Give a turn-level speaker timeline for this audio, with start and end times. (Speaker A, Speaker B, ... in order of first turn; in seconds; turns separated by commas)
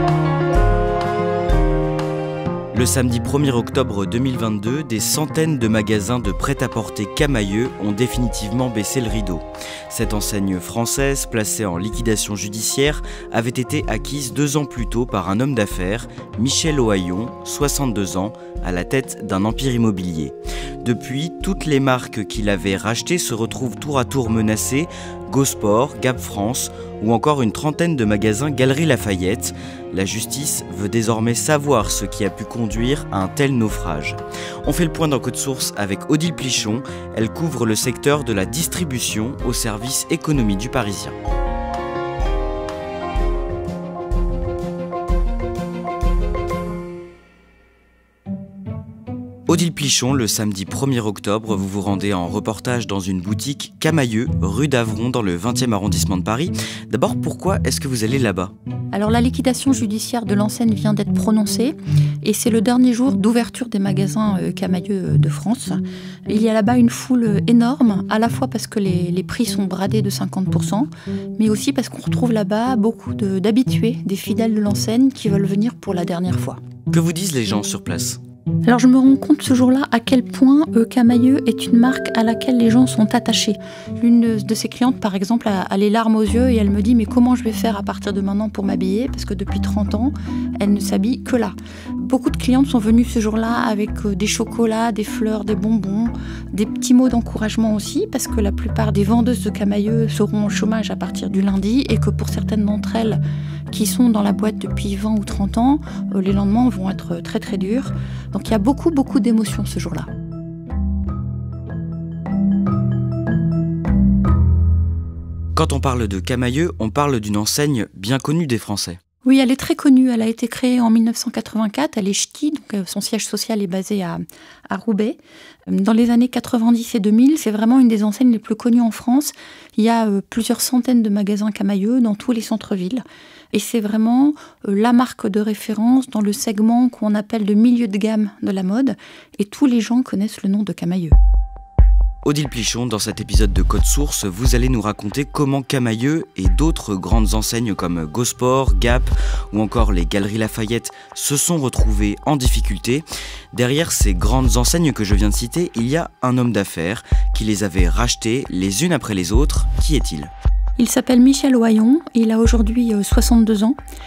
Speaker A: 2.7-41.1, Speaker A: 49.5-58.5, Speaker B: 58.9-76.6, Speaker A: 76.9-78.2, Speaker B: 78.6-110.1, Speaker A: 115.5-119.0, Speaker B: 119.2-141.2, Speaker A: 142.2-160.3, Speaker B: 160.8-163.8